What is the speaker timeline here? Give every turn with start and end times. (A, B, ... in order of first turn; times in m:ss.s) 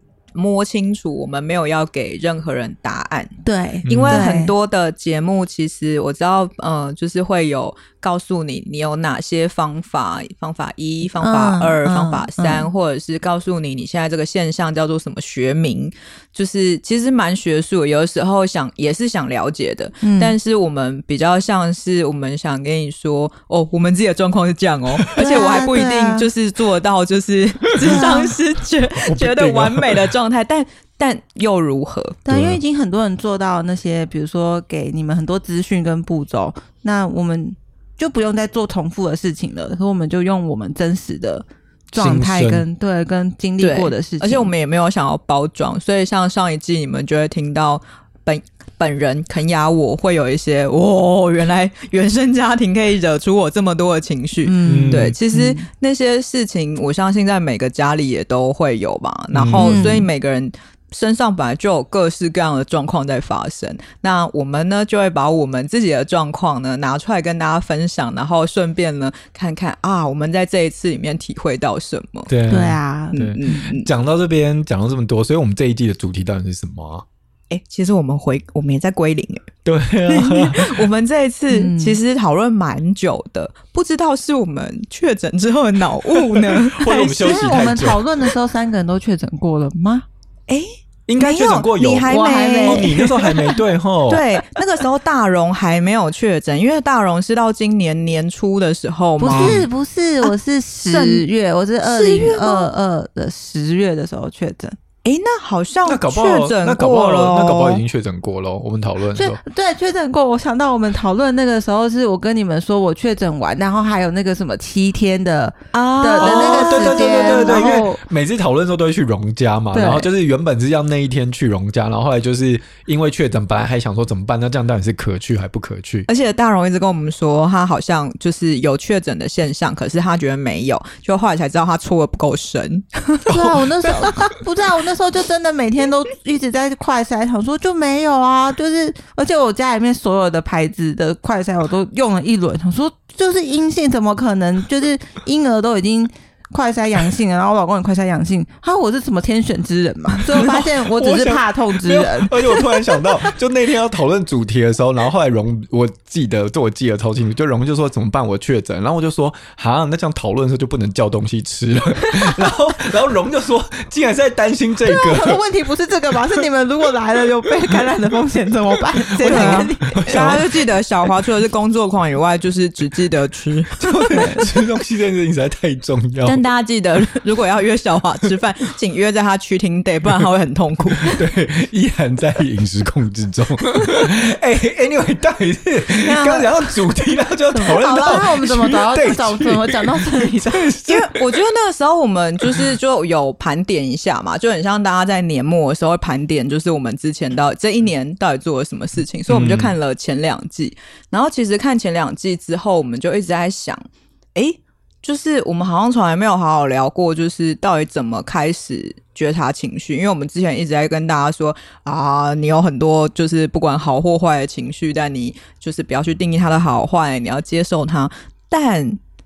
0:00.3-0:03.4 A
0:03.4-0:04.5 B
0:03.9-0:04.3 C
0:03.9-0:32.2 A
0:11.2-0:12.7 B
0:20.0-0:20.4 B
0:25.2-0:26.3 B
0:27.8-0:28.3 B
0:29.0-0:30.1 C
0:32.3-0:44.5 B
0:32.3-0:32.6 C
0:41.9-0:42.6 C
0:43.6-1:12.3 A
0:54.4-0:55.6 B
0:54.6-0:55.2 C
0:59.3-0:59.9 C
0:59.6-1:00.1 B
1:12.3-1:17.1 C
1:12.5-1:13.3 B
1:13.1-1:13.9 A
1:17.5-1:19.5 A
1:19.6-1:20.9 C
1:20.1-1:27.5 A
1:21.5-1:22.0 B
1:26.4-1:28.3 C
1:27.0-1:30.0 B
1:30.5-1:33.5 A
1:31.1-1:34.2 C
1:32.1-1:33.1 B
1:34.1-1:39.6 A
1:39.2-1:44.8 B
1:39.3-1:39.7 C
1:40.9-1:41.2 A
1:41.9-1:42.7 A
1:45.0-1:47.8 A
1:45.9-1:49.4 C
1:49.1-1:58.0 B
1:55.7-1:57.7 A
1:56.2-2:06.1 C
1:59.7-2:00.1 B
2:06.1-2:13.4 A
2:13.3-2:32.8 B
2:30.3-2:45.4 C
2:44.8-2:50.4 B
2:49.2-2:50.4 C
2:49.2-2:54.4 A
2:53.8-2:56.4 C
2:54.1-2:54.5 B
2:56.2-3:01.2 A
3:01.0-3:11.4 C
3:06.0-3:06.8 B
3:07.5-3:10.7 B
3:10.8-3:23.8 A
3:19.3-3:19.8 C
3:24.4-3:39.0 A